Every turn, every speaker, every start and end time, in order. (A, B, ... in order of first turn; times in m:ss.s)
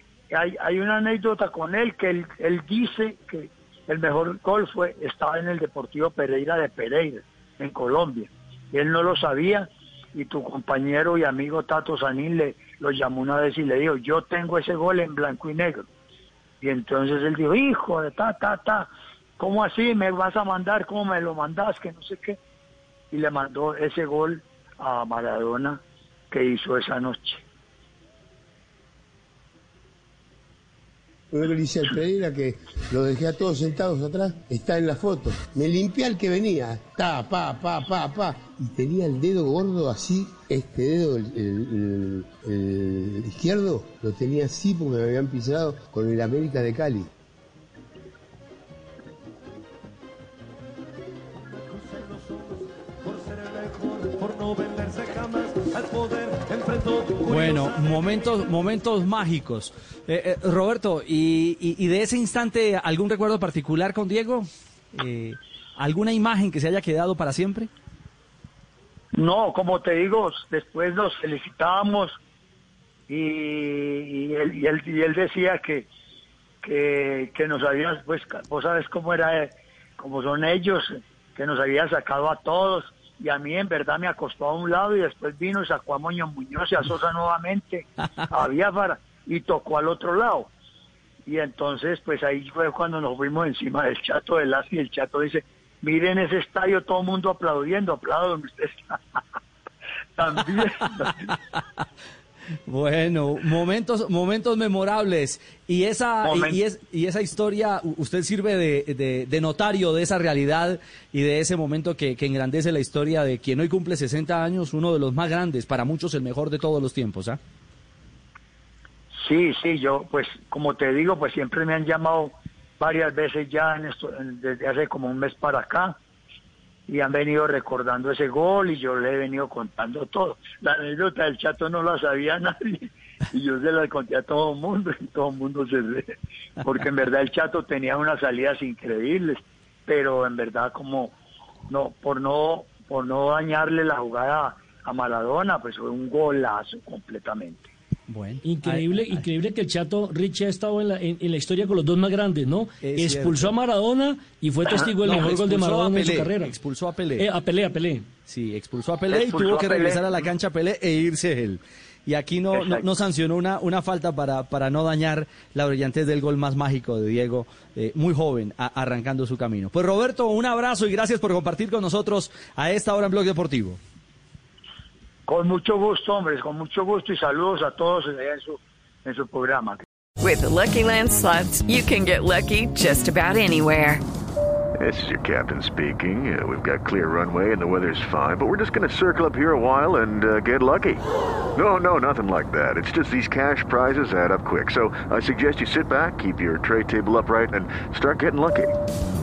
0:00.3-0:15.9 A
0:16.6-0:18.9 A
0:19.4-0:22.4 A
0:23.1-0:27.4 A
0:31.3-0:47.1 B
0:51.8-0:58.0 C
0:57.2-1:07.7 D
1:09.1-1:12.2 A
1:13.1-1:15.9 A
1:16.6-1:30.5 A
1:31.3-1:39.0 A
1:40.2-1:41.4 A
1:41.0-1:41.6 D
1:42.7-1:57.4 D
1:46.2-1:46.6 A
1:59.2-2:06.0 A
2:06.9-2:21.2 A
2:21.7-2:27.7 A
2:28.1-2:29.2 D
2:28.4-2:36.6 C
2:32.8-2:33.6 D
2:34.7-2:37.3 D
2:37.2-2:38.1 C
2:38.3-2:53.8 D
2:39.1-2:40.3 A
2:42.5-2:43.0 A
2:55.3-2:59.8 A
3:00.2-3:04.0 E
3:04.8-3:11.0 F
3:11.6-3:18.7 F